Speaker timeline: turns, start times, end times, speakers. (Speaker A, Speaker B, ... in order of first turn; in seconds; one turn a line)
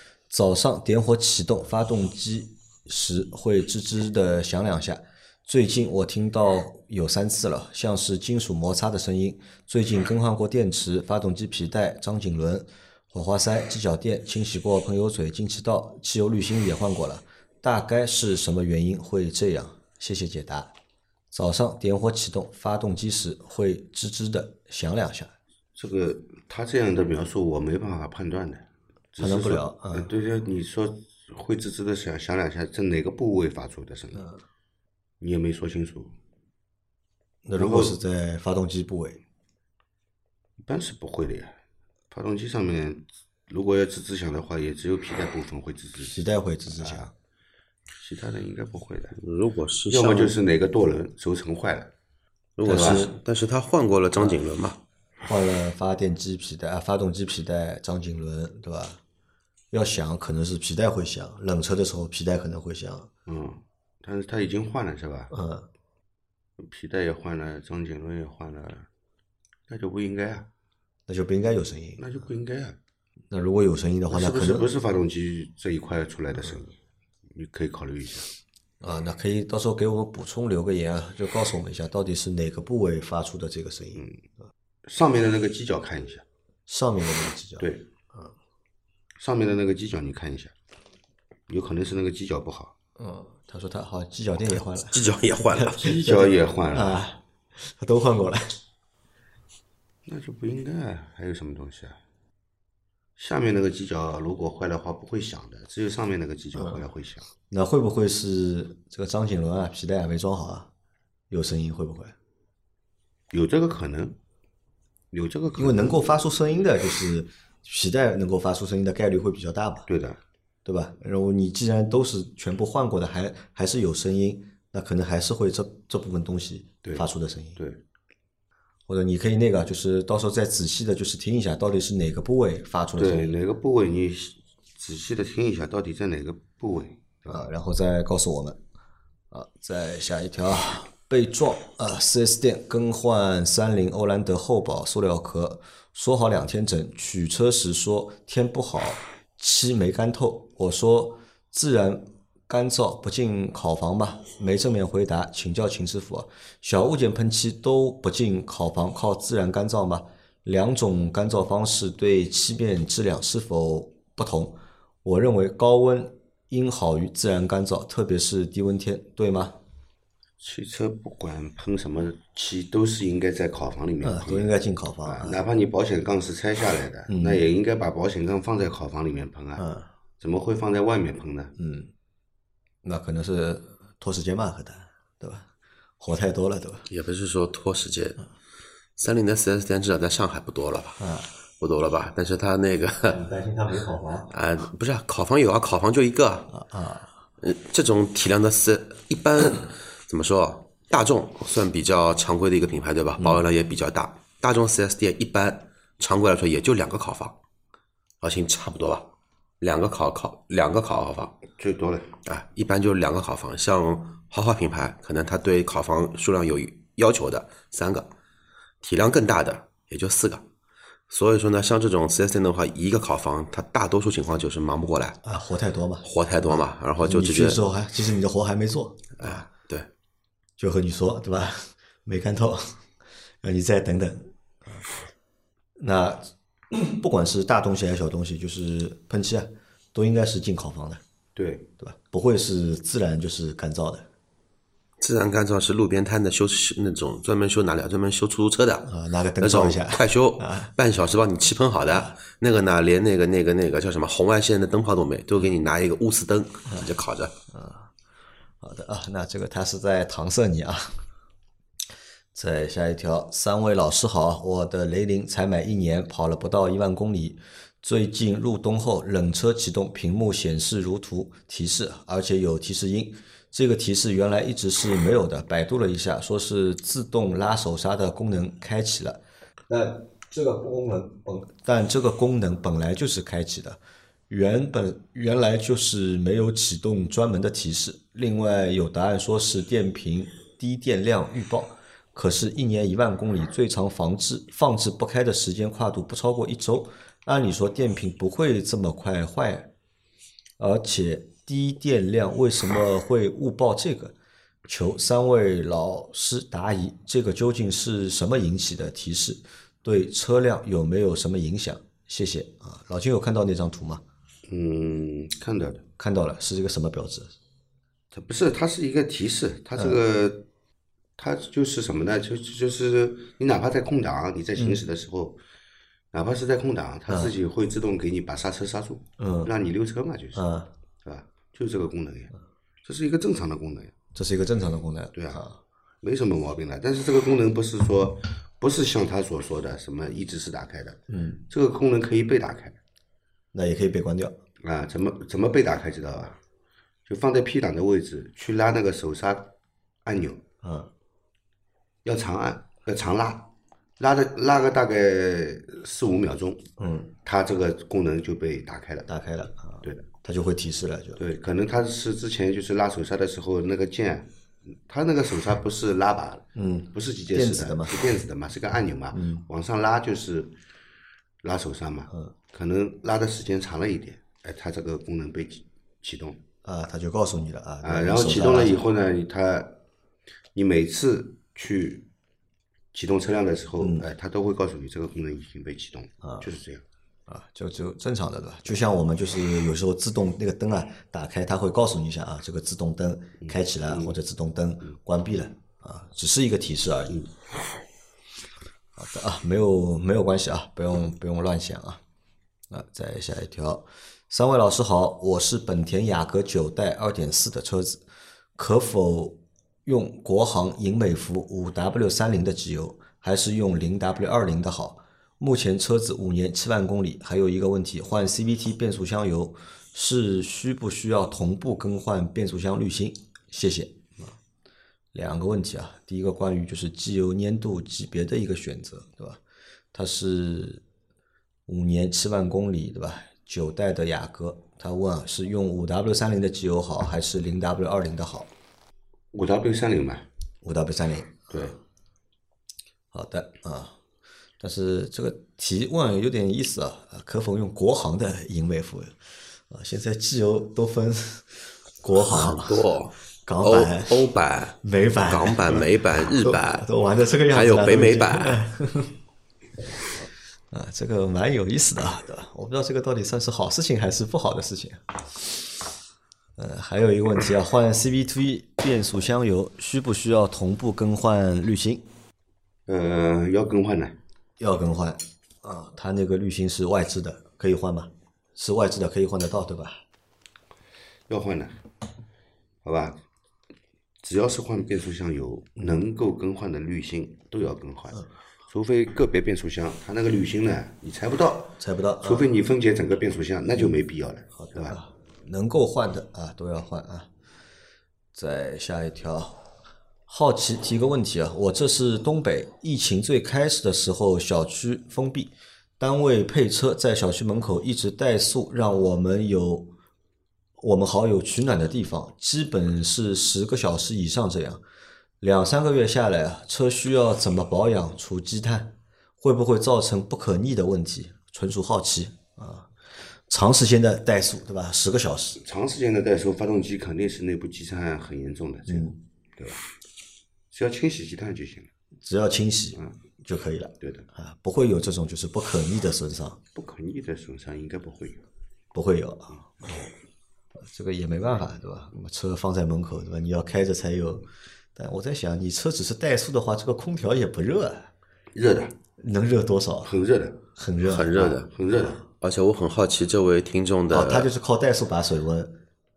Speaker A: 0.3-20.7
Speaker A: 21.3-25.3
Speaker B: 25.8-34.2
Speaker A: 29.2-30.1
Speaker A: 34.1-34.4
Speaker B: 35.2-36.1
Speaker A: 37.5-39.2
Speaker B: 37.6-38.0
Speaker B: 40.6-41.6
Speaker B: 42.1-47.1
Speaker A: 46.1-47.1
Speaker B: 48.0-49.2
Speaker C: 49.2-50.3
Speaker B: 49.9-51.9
Speaker C: 52.6-54.8
Speaker B: 52.6-53.1
Speaker A: 52.6-53.1
Speaker A: 55.2-59.0
Speaker A: 59.7-63.1
Speaker B: 63.3-65.3
Speaker A: 65.3-65.7
Speaker B: 66.6-68.9
Speaker B: 69.7-70.5
Speaker A: 71.1-72.0
Speaker B: 72.0-72.8
Speaker A: 73.3-74.7
Speaker B: 74.1-76.8
Speaker B: 77.3-78.3
Speaker A: 78.8-84.0
Speaker B: 84.0-84.2
Speaker B: 84.9-86.2
Speaker A: 86.7-88.3
Speaker B: 87.6-87.9
Speaker B: 89.2-90.5
Speaker B: 91.5-92.7
Speaker A: 93.0-98.5
Speaker C: 94.9-96.0
Speaker B: 95.8-97.0
Speaker B: 100.0-102.0
Speaker B: 103.2-107.3
Speaker A: 106.5-106.8
Speaker A: 107.5-110.7
Speaker A: 111.3-112.2
Speaker B: 113.3-114.2
Speaker B: 115.1-116.0
Speaker A: 115.6-119.9
Speaker B: 119.9-120.2
Speaker A: 120.7-127.6
Speaker B: 126.8-127.8
Speaker A: 128.9-133.3
Speaker B: 133.0-137.5
Speaker A: 137.3-138.6
Speaker A: 139.3-169.6
Speaker B: 170.4-179.7
Speaker A: 174.0-175.4
Speaker A: 177.1-177.4
Speaker A: 179.6-179.9
Speaker B: 180.2-181.5
Speaker A: 181.6-181.9
Speaker A: 182.8-185.5
Speaker A: 186.0-186.9
Speaker C: 186.9-188.2
Speaker C: 189.0-191.0
Speaker A: 191.0-191.3
Speaker C: 191.6-193.2
Speaker A: 193.1-194.3
Speaker C: 194.3-196.5
Speaker A: 196.5-197.2
Speaker C: 197.4-207.4
Speaker A: 203.2-203.4
Speaker C: 208.2-209.1
Speaker C: 209.6-211.4
Speaker B: 211.6-212.1
Speaker C: 212.2-218.1
Speaker C: 218.8-220.4
Speaker C: 221.1-225.2
Speaker A: 225.2-226.1
Speaker C: 226.0-227.6
Speaker A: 227.0-229.5
Speaker C: 229.2-229.9
Speaker A: 230.6-232.8
Speaker A: 233.4-234.9
Speaker A: 235.8-241.0
Speaker B: 241.3-241.7
Speaker A: 241.8-244.1
Speaker C: 245.0-257.3
Speaker A: 248.8-250.7
Speaker A: 251.9-252.1
Speaker A: 257.5-257.9
Speaker A: 258.6-260.9
Speaker A: 262.3-283.8
Speaker A: 284.3-299.7
Speaker A: 300.6-304.1
Speaker A: 304.7-314.0
Speaker B: 314.5-315.8
Speaker A: 316.0-317.3
Speaker B: 318.1-320.5
Speaker A: 319.8-320.0
Speaker B: 321.2-325.4
Speaker A: 324.6-324.9
Speaker B: 326.1-330.4
Speaker A: 327.1-327.3
Speaker A: 329.2-329.5
Speaker A: 330.4-330.7
Speaker B: 331.0-333.9
Speaker A: 334.1-335.6
Speaker B: 335.1-335.4
Speaker B: 336.0-342.8
Speaker A: 341.1-341.4
Speaker A: 343.5-344.4
Speaker B: 344.6-346.4
Speaker B: 347.1-349.5
Speaker B: 350.1-350.4
Speaker A: 350.6-350.9
Speaker B: 352.0-356.6
Speaker A: 356.8-357.1
Speaker B: 357.2-359.1
Speaker A: 359.1-361.2
Speaker B: 361.2-370.6
Speaker A: 366.6-368.1
Speaker A: 369.1-369.5
Speaker B: 371.4-376.4
Speaker A: 376.6-378.8
Speaker B: 377.8-379.8
Speaker B: 380.5-382.1
Speaker B: 382.9-386.8
Speaker A: 383.8-384.1
Speaker A: 386.2-386.5
Speaker A: 387.3-397.2
Speaker B: 393.4-394.2
Speaker A: 399.0-402.0
Speaker A: 402.7-408.0
Speaker A: 408.6-424.4
Speaker A: 425.1-429.4
Speaker A: 429.9-430.8
Speaker A: 431.7-438.5
Speaker B: 439.3-440.3
Speaker A: 440.6-441.8
Speaker B: 441.5-441.8
Speaker A: 443.1-444.0
Speaker A: 444.6-452.8
Speaker C: 452.2-456.9
Speaker A: 453.5-454.3
Speaker A: 454.8-459.1
Speaker C: 457.5-458.6
Speaker A: 460.7-465.6
Speaker A: 466.6-472.0
Speaker B: 472.9-474.2
Speaker A: 474.6-480.0
Speaker B: 481.3-481.8
Speaker B: 482.8-483.2
Speaker B: 484.2-495.0
Speaker A: 491.8-492.5
Speaker A: 494.6-497.3
Speaker A: 498.4-499.6
Speaker A: 500.3-509.9
Speaker A: 510.8-514.8
Speaker A: 515.4-522.9
Speaker A: 523.5-525.6
Speaker B: 525.6-529.8
Speaker A: 528.9-529.2
Speaker B: 530.7-531.9
Speaker A: 532.2-536.6
Speaker B: 534.0-534.3
Speaker B: 536.7-538.4
Speaker A: 538.9-540.1
Speaker A: 540.8-548.1
Speaker B: 548.5-549.0
Speaker A: 549.2-550.1
Speaker B: 550.0-550.6
Speaker A: 550.8-551.4
Speaker C: 551.0-551.7
Speaker B: 551.3-552.2
Speaker C: 552.4-554.5
Speaker A: 554.1-555.8